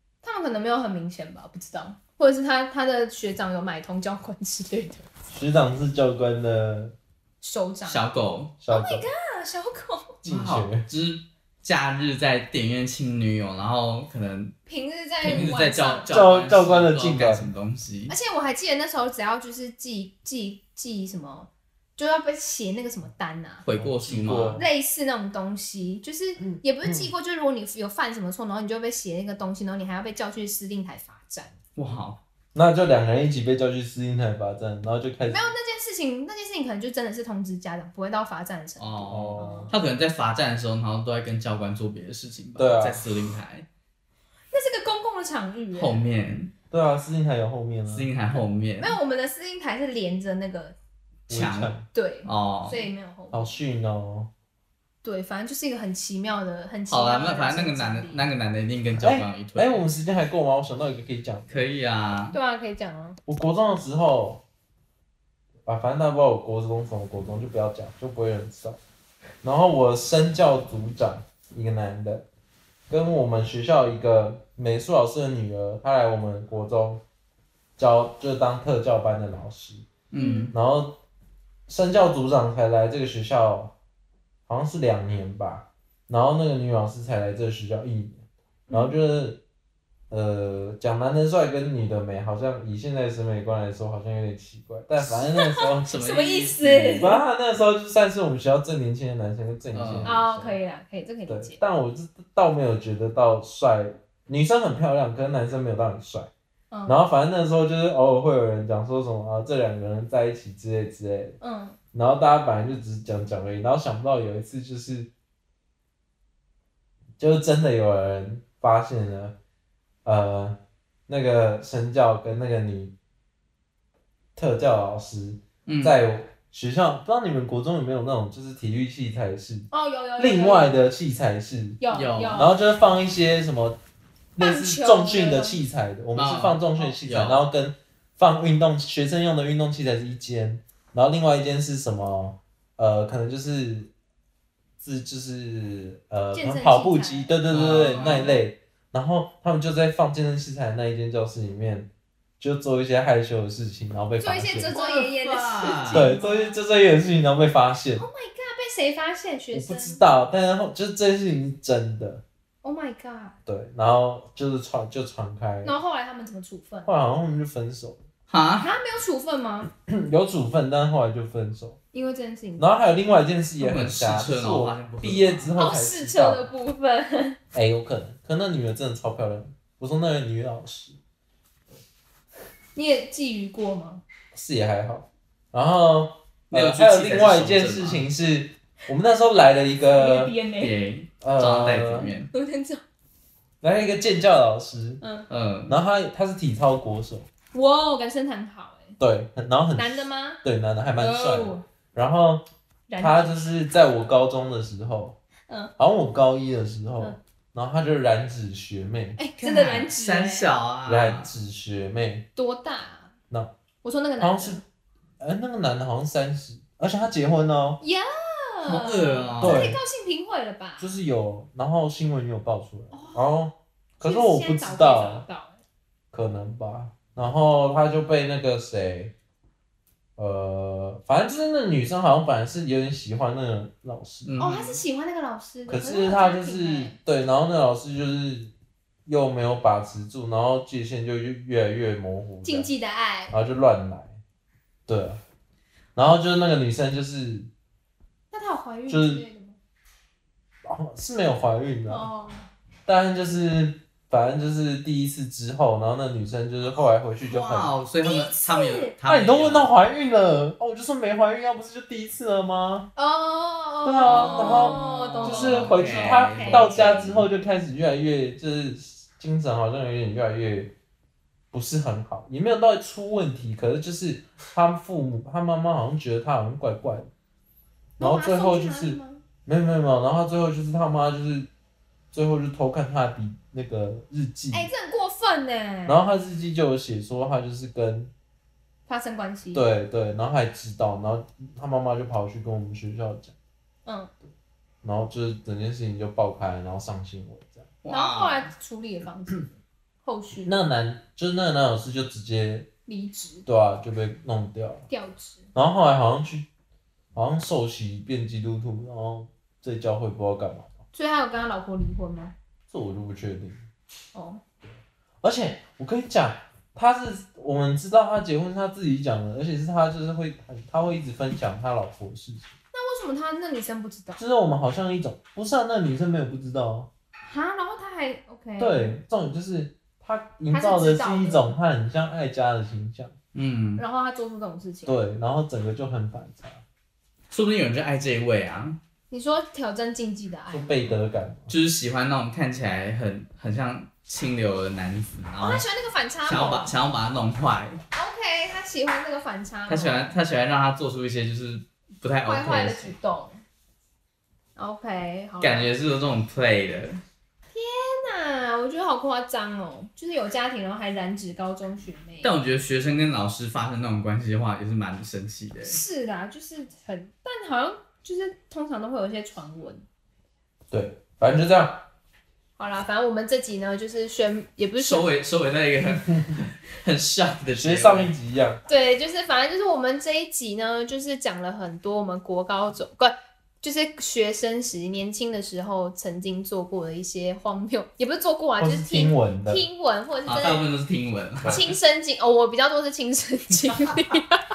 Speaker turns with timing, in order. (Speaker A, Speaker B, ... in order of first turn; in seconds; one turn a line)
Speaker A: 0.2-5.1
Speaker B: 5.3-7.0
Speaker A: 7.4-8.0
Speaker C: 7.8-8.5
Speaker B: 8.6-9.1
Speaker A: 8.7-10.2
Speaker B: 10.2-10.9
Speaker C: 10.2-14.6
Speaker A: 14.7-16.1
Speaker C: 15.2-18.1
Speaker B: 16.1-17.5
Speaker A: 18.1-23.6
Speaker C: 23.6-24.6
Speaker B: 23.8-24.7
Speaker A: 24.6-31.5
Speaker B: 26.4-27.1
Speaker C: 31.8-32.2
Speaker B: 32.5-35.5
Speaker A: 35.3-39.7
Speaker C: 38.8-43.7
Speaker B: 39.0-39.7
Speaker B: 42.6-43.0
Speaker A: 44.5-46.0
Speaker C: 45.7-46.5
Speaker B: 46.7-48.1
Speaker C: 47.9-49.0
Speaker A: 48.8-50.8
Speaker C: 51.3-51.7
Speaker B: 51.3-51.9
Speaker A: 51.9-53.6
Speaker C: 52.2-52.9
Speaker B: 53.3-54.3
Speaker A: 55.0-58.2
Speaker C: 56.9-59.8
Speaker B: 59.0-61.6
Speaker C: 61.5-62.4
Speaker A: 62.3-63.2
Speaker B: 63.3-64.4
Speaker B: 65.7-68.8
Speaker B: 69.4-72.3
Speaker B: 72.9-77.0
Speaker B: 77.8-79.9
Speaker C: 80.1-80.5
Speaker A: 80.2-80.5
Speaker B: 80.5-81.0
Speaker B: 81.7-83.8
Speaker B: 84.5-89.4
Speaker A: 88.7-89.0
Speaker B: 90.1-95.9
Speaker A: 95.3-97.2
Speaker C: 95.8-97.1
Speaker B: 96.9-100.6
Speaker C: 99.7-100.2
Speaker A: 100.0-101.6
Speaker B: 101.3-106.3
Speaker A: 106.7-107.0
Speaker B: 106.9-111.4
Speaker A: 111.4-111.8
Speaker B: 111.9-115.1
Speaker B: 117.2-119.4
Speaker B: 120.0-123.0
Speaker B: 124.4-131.8
Speaker C: 125.7-126.0
Speaker A: 129.7-130.7
Speaker A: 131.8-132.6
Speaker C: 131.9-132.4
Speaker B: 132.3-133.8
Speaker B: 134.4-143.9
Speaker A: 134.4-135.6
Speaker C: 136.2-137.4
Speaker B: 144.8-154.7
Speaker A: 146.3-147.4
Speaker C: 147.5-148.4
Speaker A: 147.9-148.3
Speaker A: 154.2-156.6
Speaker C: 154.7-156.1
Speaker B: 155.9-158.1
Speaker A: 158.0-160.0
Speaker B: 159.5-162.2
Speaker A: 162.6-163.4
Speaker B: 163.5-165.7
Speaker A: 165.6-166.9
Speaker B: 166.9-168.0
Speaker C: 168.3-168.7
Speaker A: 168.6-169.7
Speaker B: 169.7-171.8
Speaker A: 171.9-172.7
Speaker B: 172.6-176.5
Speaker C: 173.6-175.5
Speaker A: 175.6-177.4
Speaker B: 177.5-181.0
Speaker A: 182.8-184.0
Speaker B: 184.3-190.3
Speaker C: 186.5-188.1
Speaker A: 189.9-190.7
Speaker C: 190.6-192.3
Speaker B: 191.2-192.1
Speaker A: 192.3-192.8
Speaker B: 193.6-195.0
Speaker A: 195.0-195.3
Speaker C: 195.3-195.8
Speaker B: 195.7-197.3
Speaker A: 197.5-199.0
Speaker B: 199.0-202.4
Speaker A: 199.8-200.4
Speaker A: 201.0-201.7
Speaker A: 202.9-203.6
Speaker B: 203.0-205.2
Speaker B: 205.8-209.2
Speaker A: 209.2-210.5
Speaker C: 209.4-211.3
Speaker B: 210.9-212.3
Speaker A: 212.4-213.1
Speaker A: 213.8-214.6
Speaker B: 214.2-214.6
Speaker B: 215.2-217.8
Speaker A: 217.8-220.9
Speaker C: 218.7-219.8
Speaker B: 219.4-219.8
Speaker B: 220.8-225.3
Speaker A: 222.9-223.3
Speaker A: 224.0-225.6
Speaker B: 226.1-229.1
Speaker B: 230.2-234.3
Speaker C: 234.2-234.8
Speaker A: 234.4-237.0
Speaker B: 235.7-238.5
Speaker B: 239.1-242.7
Speaker A: 242.4-243.3
Speaker B: 243.3-244.2
Speaker B: 244.9-245.2
Speaker B: 246.0-247.5
Speaker A: 248.3-249.6
Speaker B: 248.9-249.3
Speaker B: 250.6-252.1
Speaker A: 251.9-252.5
Speaker B: 252.9-257.7
Speaker C: 257.2-259.7
Speaker A: 258.0-258.9
Speaker B: 259.1-262.9
Speaker A: 263.0-267.2
Speaker B: 263.9-270.8
Speaker C: 264.0-267.2
Speaker B: 271.5-277.1
Speaker A: 278.0-279.2
Speaker B: 278.0-281.5
Speaker B: 282.1-284.7
Speaker A: 284.5-286.0
Speaker B: 285.9-288.1
Speaker A: 288.9-289.6
Speaker B: 289.5-293.3
Speaker A: 293.9-294.1
Speaker B: 294.8-297.7
Speaker C: 297.8-298.5
Speaker A: 297.9-300.5
Speaker B: 300.4-302.7
Speaker A: 302.9-303.4
Speaker B: 303.5-304.9
Speaker A: 304.9-305.4
Speaker B: 305.5-306.5
Speaker B: 307.1-310.7
Speaker A: 310.9-312.3
Speaker B: 312.7-313.7
Speaker A: 314.1-314.4
Speaker B: 315.2-322.5
Speaker A: 322.7-324.2
Speaker B: 324.2-326.9
Speaker A: 327.2-328.9
Speaker B: 328.6-333.1
Speaker A: 330.5-331.5
Speaker C: 333.3-333.8
Speaker A: 333.8-335.0
Speaker B: 334.9-336.6
Speaker C: 337.3-338.8
Speaker A: 339.1-340.9
Speaker B: 340.5-341.5
Speaker C: 341.5-345.7
Speaker A: 345.4-346.7
Speaker C: 346.3-347.8
Speaker A: 347.9-350.2
Speaker C: 349.7-352.9
Speaker A: 352.2-353.4
Speaker A: 354.6-355.7
Speaker C: 355.4-357.0
Speaker A: 357.5-362.4
Speaker C: 362.2-365.8
Speaker A: 365.6-369.9
Speaker B: 370.7-371.9
Speaker A: 372.6-375.1
Speaker C: 374.8-378.1
Speaker B: 377.6-378.6
Speaker A: 378.7-390.7
Speaker B: 388.6-389.6
Speaker C: 390.3-391.6
Speaker B: 391.4-391.7
Speaker A: 391.5-394.4